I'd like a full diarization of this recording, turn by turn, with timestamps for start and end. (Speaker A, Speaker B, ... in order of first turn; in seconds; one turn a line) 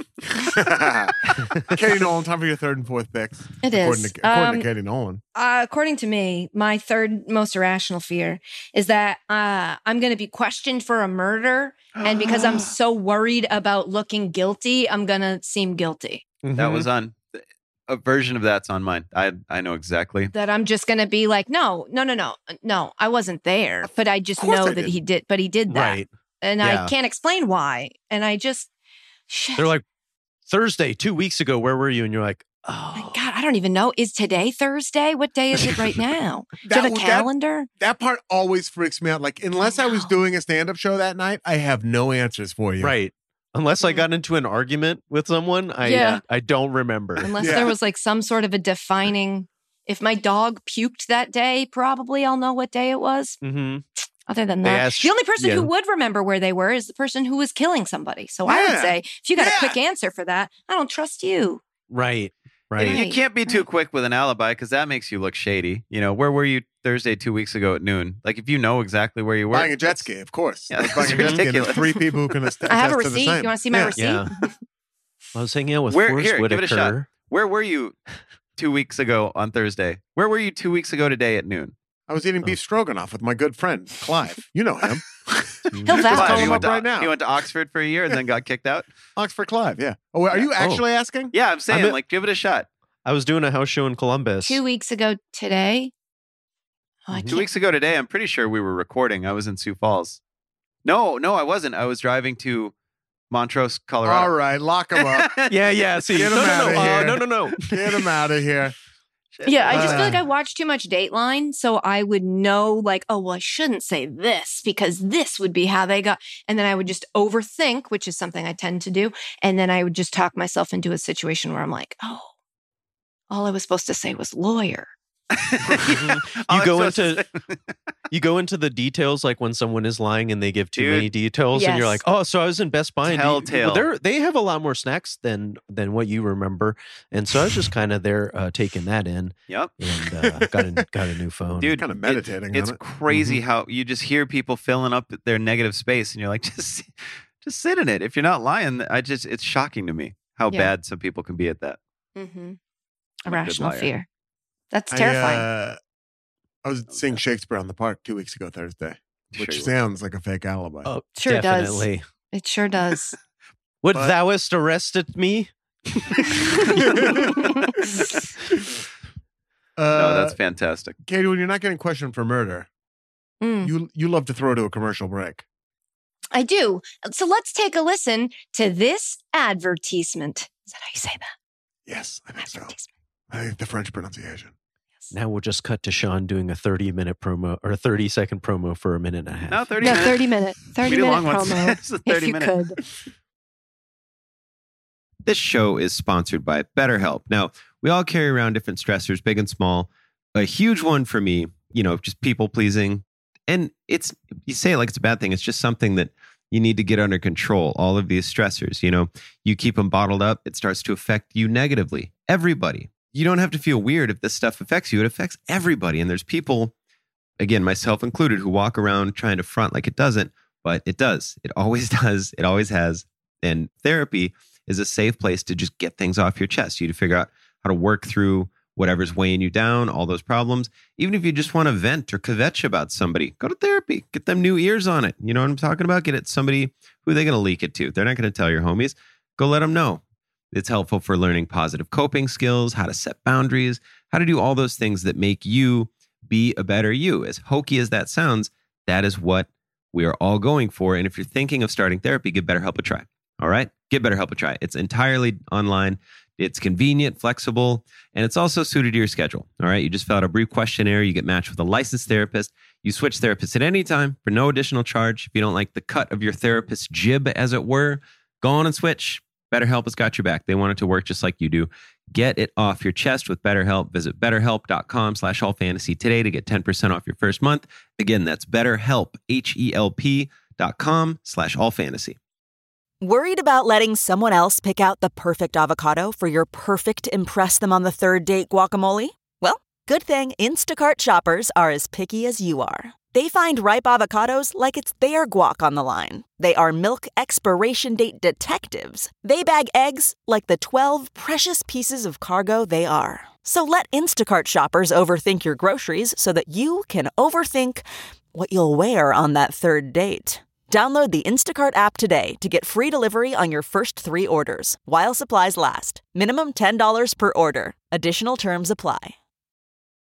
Speaker A: 0.4-5.2
Speaker B: 1.4-1.7
Speaker C: 3.6-4.7
Speaker C: 5.3-16.2
Speaker D: 12.0-12.6
Speaker B: 16.4-16.9
Speaker D: 16.5-20.3
Speaker C: 20.3-28.7
Speaker A: 24.4-24.9
Speaker B: 25.7-26.1
Speaker B: 26.6-26.9
Speaker C: 29.3-29.7
Speaker B: 29.6-29.8
Speaker B: 30.5-33.2
Speaker C: 32.9-37.7
Speaker B: 35.5-36.0
Speaker A: 36.6-42.9
Speaker C: 39.6-40.1
Speaker B: 42.8-47.7
Speaker C: 45.8-46.2
Speaker C: 47.2-53.4
Speaker A: 47.4-47.7
Speaker B: 53.4-53.8
Speaker C: 54.3-61.6
Speaker B: 54.6-55.7
Speaker A: 58.5-59.8
Speaker B: 61.9-63.0
Speaker D: 62.8-70.0
Speaker C: 62.8-63.6
Speaker A: 69.5-73.9
Speaker D: 70.7-72.1
Speaker B: 71.0-71.4
Speaker C: 72.7-74.5
Speaker B: 74.0-74.3
Speaker B: 75.3-77.1
Speaker D: 75.9-77.9
Speaker D: 78.6-81.7
Speaker A: 82.1-87.1
Speaker B: 85.7-86.3
Speaker C: 85.8-86.7
Speaker D: 86.1-88.9
Speaker A: 89.2-91.3
Speaker B: 90.6-90.8
Speaker D: 91.3-92.7
Speaker B: 91.7-92.0
Speaker B: 93.0-94.6
Speaker C: 94.4-95.9
Speaker C: 97.1-97.5
Speaker B: 97.1-97.4
Speaker D: 97.3-100.2
Speaker D: 100.8-102.7
Speaker D: 103.3-104.3
Speaker A: 104.0-105.4
Speaker D: 105.0-105.6
Speaker B: 105.5-108.0
Speaker A: 106.1-108.7
Speaker D: 106.1-106.7
Speaker D: 109.3-110.1
Speaker C: 109.5-122.3
Speaker A: 109.7-110.2
Speaker C: 123.3-124.9
Speaker D: 125.3-127.5
Speaker B: 125.8-127.2
Speaker B: 128.1-141.8
Speaker D: 130.8-131.1
Speaker C: 131.5-132.0
Speaker D: 133.0-133.9
Speaker A: 140.1-140.5
Speaker D: 141.6-151.8
Speaker A: 141.8-142.8
Speaker B: 143.1-143.4
Speaker C: 152.2-152.6
Speaker C: 153.2-154.1
Speaker D: 153.3-153.9
Speaker C: 154.7-155.5
Speaker A: 154.9-155.8
Speaker A: 156.6-160.9
Speaker D: 159.3-159.7
Speaker B: 160.8-162.0
Speaker C: 161.1-163.2
Speaker B: 163.8-166.8
Speaker A: 166.6-167.9
Speaker C: 167.3-168.1
Speaker A: 169.8-170.3
Speaker D: 169.9-170.9
Speaker A: 171.0-172.7
Speaker C: 173.4-173.7
Speaker A: 173.6-175.4
Speaker C: 176.3-181.3
Speaker A: 181.9-182.7
Speaker C: 182.4-182.9
Speaker A: 183.3-184.5
Speaker B: 185.1-190.1
Speaker D: 189.5-190.3
Speaker C: 189.8-192.8
Speaker D: 190.8-192.6
Speaker E: 195.2-216.7
Speaker E: 217.4-282.1
Speaker F: 283.0-319.1